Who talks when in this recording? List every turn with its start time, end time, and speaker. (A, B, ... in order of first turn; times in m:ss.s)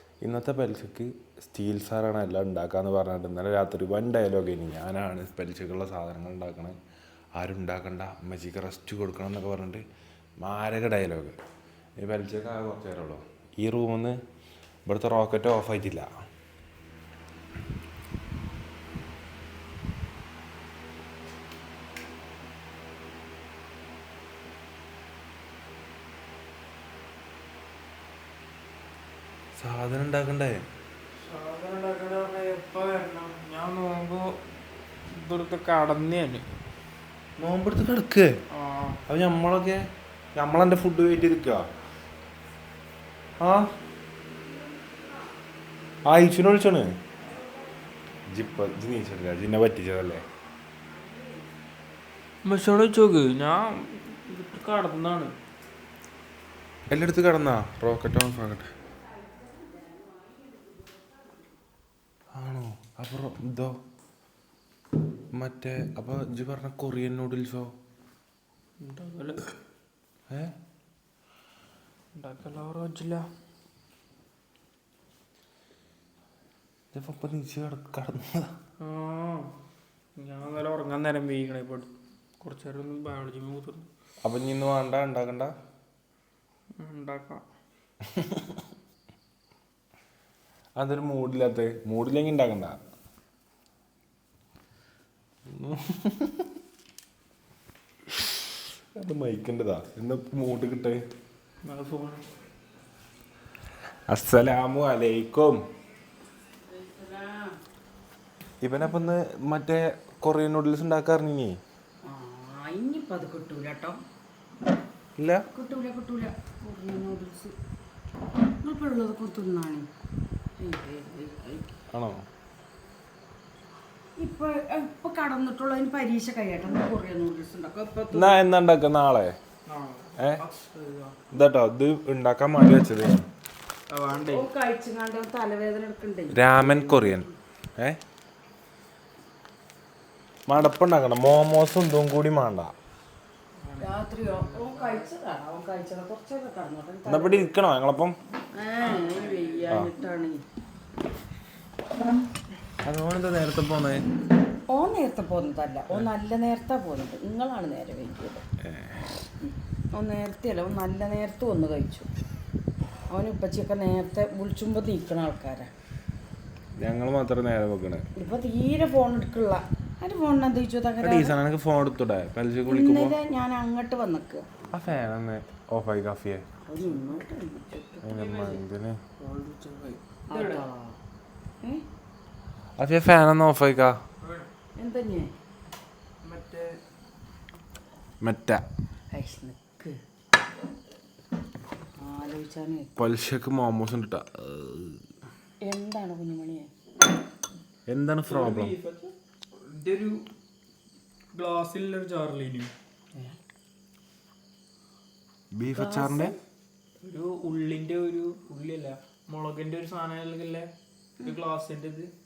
0:00.2-0:06.8 A
0:07.4-0:09.8 A
0:10.4-0:11.4 A
0:12.0-0:14.2 A
0:14.9-0:16.1 A
0:29.6-0:30.6 A
0:31.2-0:34.3 B
0:35.1-0:36.5 B
0:37.4-0:38.4 A
0:38.6-0:39.0 B
0:39.1-0:39.8 A
0:40.3-0:41.6 A
0:43.4-0:43.7 A
0:46.0-0:46.9 A
0:48.3-0:50.2 A
0:52.4-0:55.3 B
0:56.9-0:58.7 A
1:02.3-1:03.8 A
1:05.3-1:07.7 A
1:08.8-1:09.5 B
1:12.2-1:13.3 B
1:16.9-1:18.5 A
1:18.8-1:19.5 B
1:20.2-1:23.9 B
1:24.2-1:25.5 A
1:26.8-1:27.4 B
1:28.1-1:28.5 A
1:30.8-1:32.8 A
1:35.5-1:36.5 A
1:39.0-1:41.0 A
1:41.6-1:42.2 B
1:44.1-1:45.6 A
1:46.7-1:47.6 C
1:48.6-1:51.6 A
1:52.0-1:54.0 C
1:55.2-1:55.4 A
1:55.5-1:57.5 C
1:58.6-1:59.9 C
2:00.6-2:01.7 C
2:01.9-2:02.2 A
2:04.2-2:08.4 C
2:08.1-2:09.4 A
2:09.7-2:11.2 B
2:10.2-2:10.4 A
2:11.3-2:13.2 A
2:13.9-2:14.5 B
2:14.3-2:17.3 C
2:16.3-2:18.0 A
2:20.5-2:22.7 A
2:23.6-2:25.1 B
2:23.8-2:27.5 C
2:27.1-2:28.2 A
2:28.5-2:30.4 C
2:28.8-2:29.8 B
2:32.8-2:34.1 A
2:34.7-2:38.4 C
2:38.6-2:39.0 A
2:39.9-2:42.1 C
2:43.1-2:45.7 C
2:46.8-2:48.1 A
2:48.2-2:51.4 C
2:51.0-2:53.2 A
2:52.7-2:54.4 C
2:54.7-2:56.4 A
2:56.7-2:58.0 C
2:58.0-2:58.6 B
2:58.0-2:59.0 A
2:59.2-3:00.6 B
3:00.3-3:01.0 C
3:02.8-3:04.0 A
3:04.8-3:05.3 C
3:06.2-3:06.8 B
3:08.2-3:08.6 A
3:09.1-3:10.0 C
3:12.0-3:13.1 C
3:13.0-3:15.0 A
3:15.6-3:16.7 C
3:17.9-3:18.8 A
3:18.3-3:19.1 B
3:19.6-3:20.2 B
3:21.3-3:22.7 B
3:25.5-3:26.3 A
3:25.8-3:26.4 C
3:27.0-3:30.7 B
3:31.2-3:32.1 B